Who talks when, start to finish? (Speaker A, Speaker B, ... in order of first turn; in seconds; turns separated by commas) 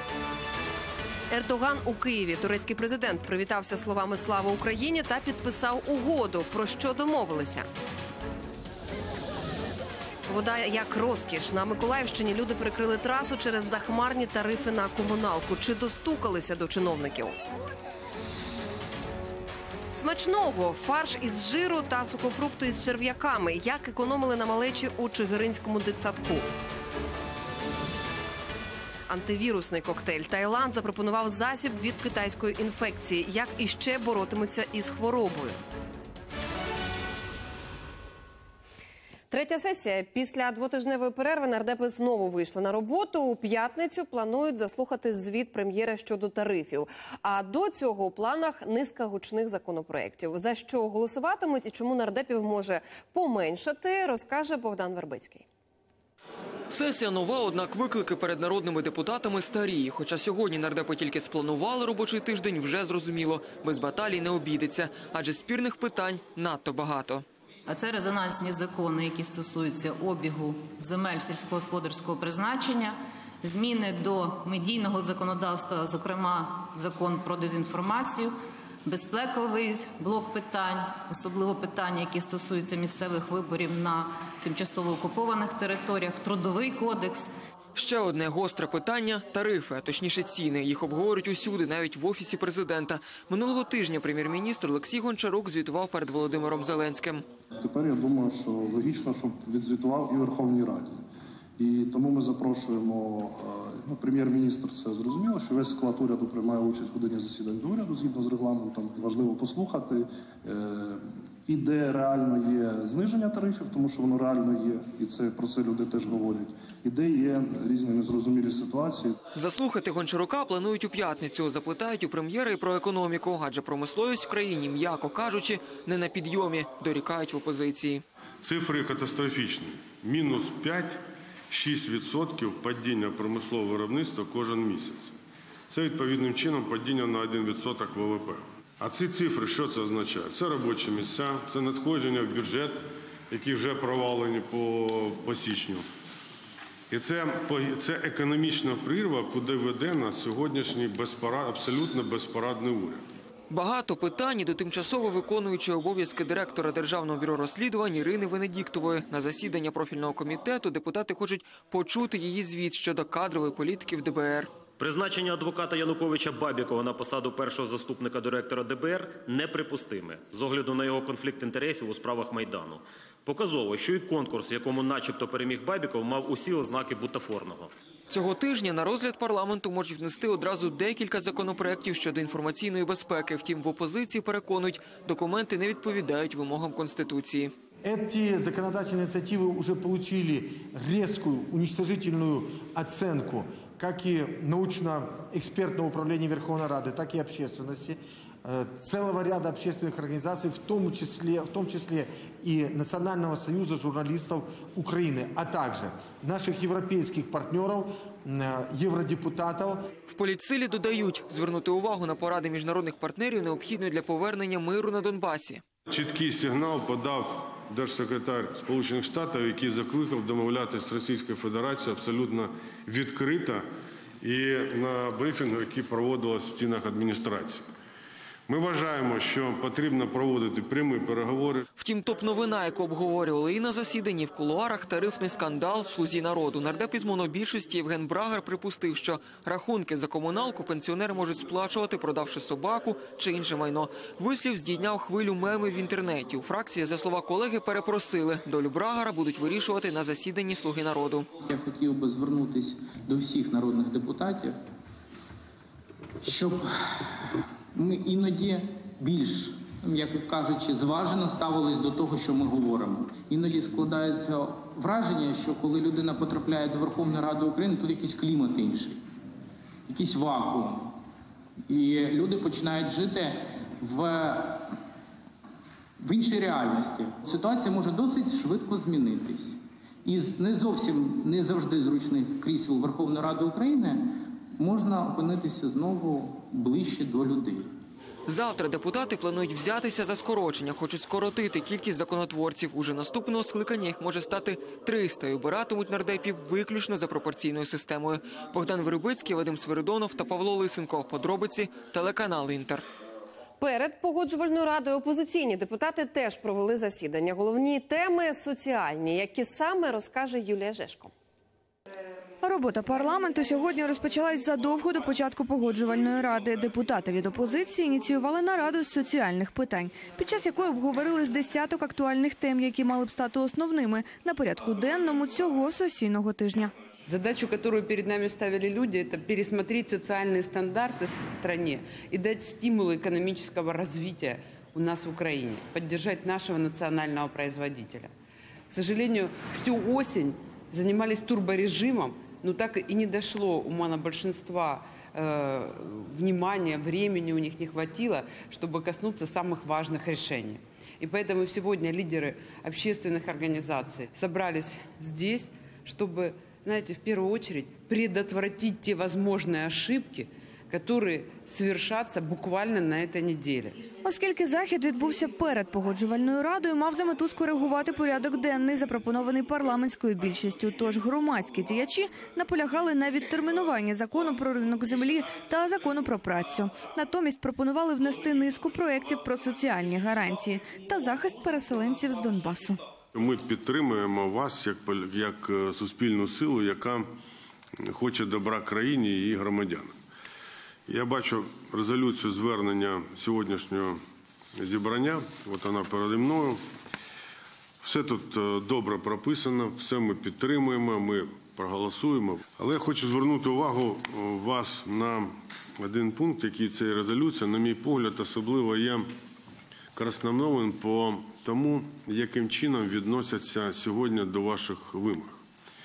Speaker A: 1.3-7.7, Speaker A: 10.3-17.4, Speaker A: 19.9-26.4, Speaker A: 29.1-35.6, Speaker A: 39.3-55.5, Speaker B: 56.7-67.2, Speaker C: 67.7-87.3, Speaker B: 87.8-97.2, Speaker D: 97.6-101.0, Speaker D: 101.6-119.2, Speaker B: 119.3-128.0, Speaker E: 128.4-135.1, Speaker E: 135.7-145.8, Speaker E: 146.9-153.0, Speaker B: 153.5-164.5, Speaker F: 164.8-177.7, Speaker B: 178.1-187.5, Speaker G: 187.8-209.9, Speaker B: 210.1-215.6, Speaker E: 215.9-223.7, Speaker E: 224.2-227.6, Speaker E: 228.5-231.7, Speaker B: 231.8-251.3, Speaker H: 251.4-254.6, Speaker H: 256.2-257.1, Speaker H: 257.7-269.0, Speaker H: 269.9-270.9, Speaker H: 271.7-274.6, Speaker H: 276.0-287.7, Speaker B: 288.3-302.9, Speaker A: 303.6-311.1, Speaker I: 312.4-326.7, Speaker J: 327.1-338.1, Speaker J: 338.7-363.8, Speaker I: 364.0-382.8, Speaker E: 383.1-387.1, Speaker E: 387.8-389.9, Speaker E: 390.9-394.0, Speaker E: 394.6-396.6, Speaker E: 397.8-409.1, Speaker E: 410.0-415.4